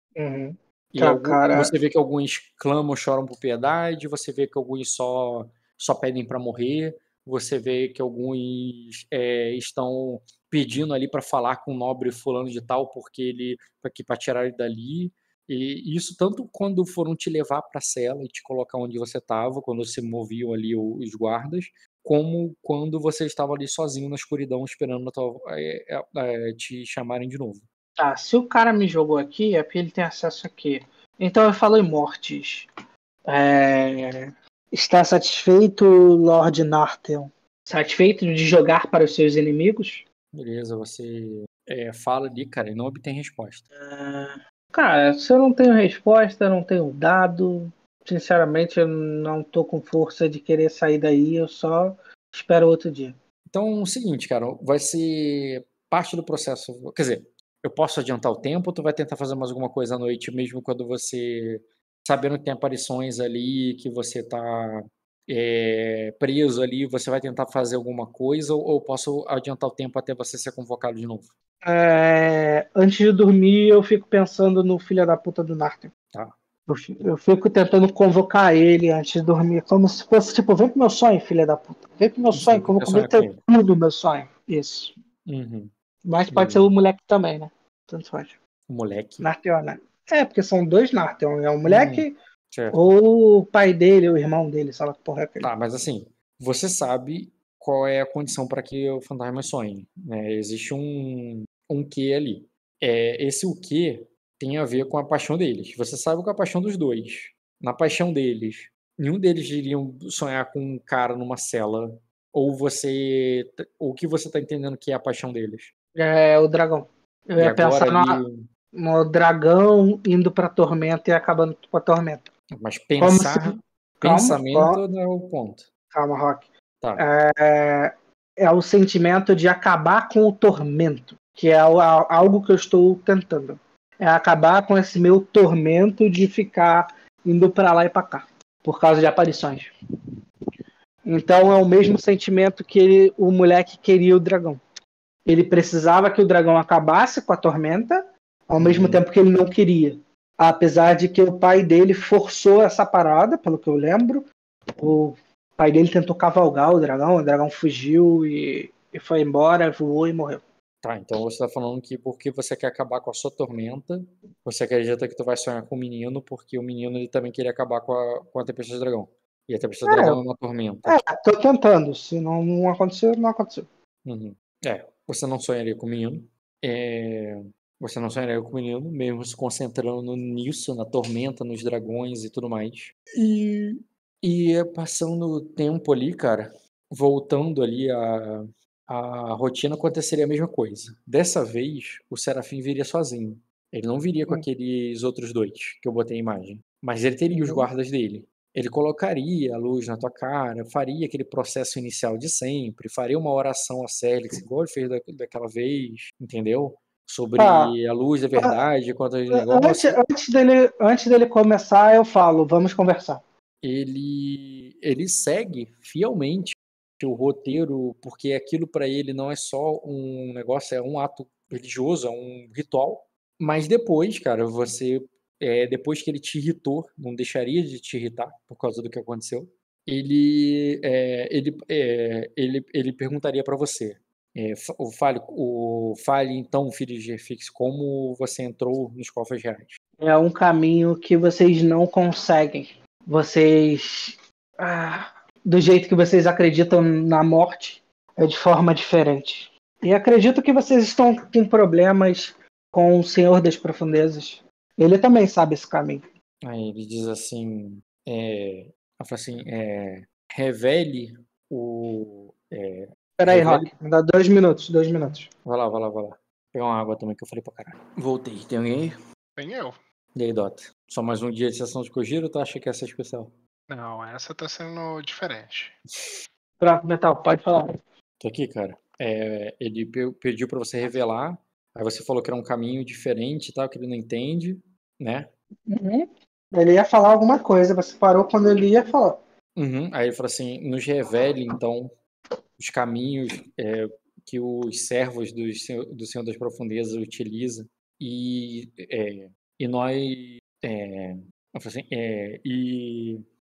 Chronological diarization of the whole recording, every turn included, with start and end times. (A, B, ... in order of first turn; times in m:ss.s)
0:00.2-0:01.7 A
0:00.9-0:27.7 B
0:28.0-0:32.7 A
0:33.3-0:40.0 A
0:40.3-0:43.6 B
0:43.8-0:53.2 A
0:53.5-1:11.3 B
1:11.6-1:15.9 A
1:16.7-1:24.9 A
1:22.3-1:23.4 B
1:25.3-1:25.7 B
1:26.0-1:28.4 A
1:26.3-1:26.7 B
1:28.7-1:29.3 B
1:29.2-1:32.1 A
1:31.6-1:32.9 B
1:32.7-1:35.5 A
1:35.4-1:55.7 B
1:55.9-1:58.2 A
1:57.4-1:58.4 B
1:58.7-2:02.3 A
2:02.6-2:05.7 B
2:03.0-2:04.8 A
2:05.9-2:19.7 A
2:21.0-2:24.6 A
2:25.2-2:40.4 A
2:28.6-2:29.0 B
2:40.8-2:51.0 B
2:49.8-2:50.2 A
2:50.8-2:53.7 A
2:54.0-3:30.0 B
3:17.3-3:17.7 A
3:27.4-3:27.7 A
3:29.3-3:33.2 A
3:33.6-3:59.8 B
4:00.0-4:16.0 A
4:16.4-4:23.7 B
4:23.2-4:25.3 A
4:25.4-4:29.0 B
4:29.4-4:29.8 C
4:30.2-4:33.3 B
4:33.7-4:35.8 C
4:36.6-4:37.7 A
4:38.2-4:45.3 B
4:45.7-4:49.2 A
4:49.6-4:51.9 B
4:52.6-5:03.2 B